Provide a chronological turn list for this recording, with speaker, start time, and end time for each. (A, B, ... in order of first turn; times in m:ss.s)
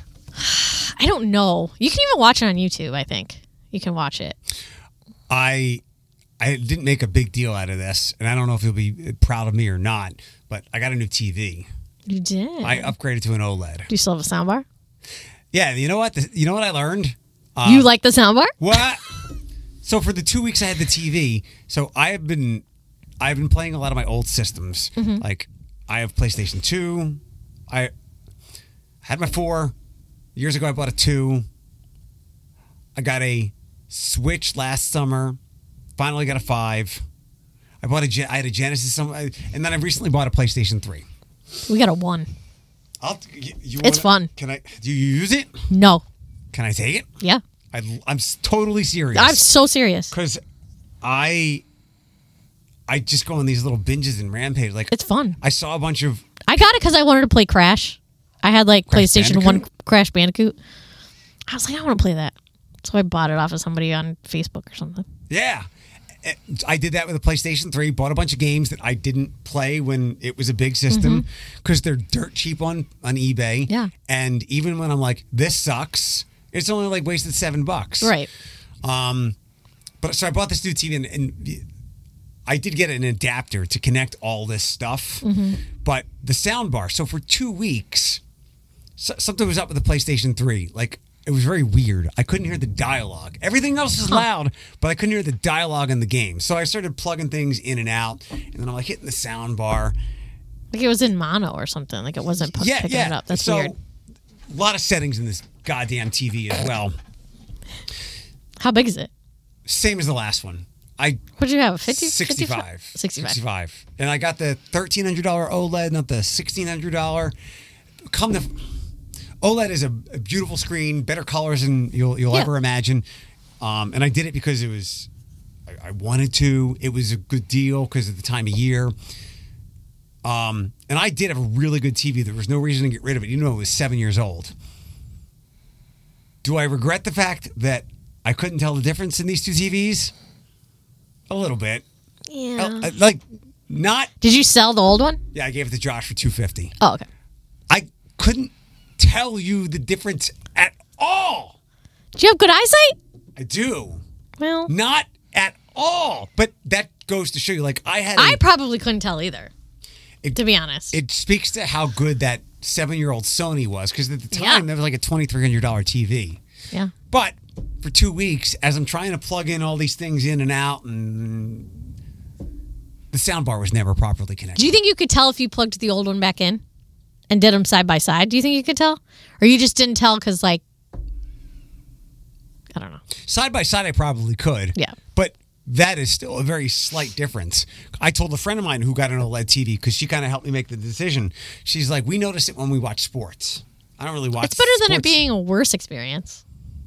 0:00.4-0:04.4 A
0:05.3-0:05.8 B
0:06.4-0:11.7 B
0:12.1-0:12.9 A
0:12.6-0:13.9 B
0:13.9-0:14.6 A
0:15.5-0:17.9 B
0:17.6-0:18.6 A
0:18.6-0:19.2 B
0:19.8-0:22.6 B
0:23.2-0:27.9 B
0:25.0-0:25.2 A
0:29.0-0:29.7 B
0:30.4-0:31.5 B
0:33.0-0:35.4 B
0:36.0-0:37.0 B
0:37.8-0:41.1 B
0:41.7-0:42.3 A
0:43.0-0:45.7 B
0:43.8-0:44.3 A
0:45.7-0:46.0 A
0:46.5-0:47.1 B
0:47.7-0:49.4 B
0:49.2-0:50.1 A
0:50.1-0:50.4 B
0:51.0-0:51.6 B
0:52.9-0:56.3 B
0:54.9-0:55.4 A
0:56.4-1:00.6 A
0:58.9-0:59.6 B
1:01.5-1:05.1 A
1:05.3-1:05.7 B
1:06.2-1:18.1 B
1:10.9-1:11.2 A
1:18.0-1:18.3 A
1:18.8-1:19.4 B
1:20.0-1:21.6 B
1:22.5-1:25.3 B
1:25.2-1:25.6 A
1:25.8-1:28.2 B
1:29.0-1:40.0 B
1:40.7-1:43.8 A
1:42.5-1:43.8 B
1:44.5-1:47.0 B
1:48.6-1:49.1 A
1:49.7-1:51.2 B
1:51.4-1:53.4 A
1:51.9-1:57.3 B
1:58.1-1:58.6 B
1:59.4-2:03.0 B
2:03.6-2:05.1 B
2:05.7-2:08.9 B
2:10.2-2:14.5 B
2:16.4-2:20.1 B
2:21.3-2:21.8 B
2:22.3-2:22.9 A
2:22.6-2:24.1 B
2:24.2-2:25.2 A
2:25.3-2:26.7 B
2:26.8-2:27.1 A
2:27.7-2:31.6 B
2:32.2-2:33.0 A
2:33.4-2:34.0 B
2:34.4-2:34.7 A
2:34.7-2:38.4 B
2:38.2-2:39.5 A
2:40.4-2:41.0 A
2:40.9-2:46.4 B
2:44.3-2:44.6 A
2:47.1-2:51.8 B
2:53.1-2:54.7 B
2:54.6-2:56.6 A
2:57.3-3:00.6 A
3:02.7-3:03.0 A
3:03.2-3:15.2 B
3:14.4-3:16.4 A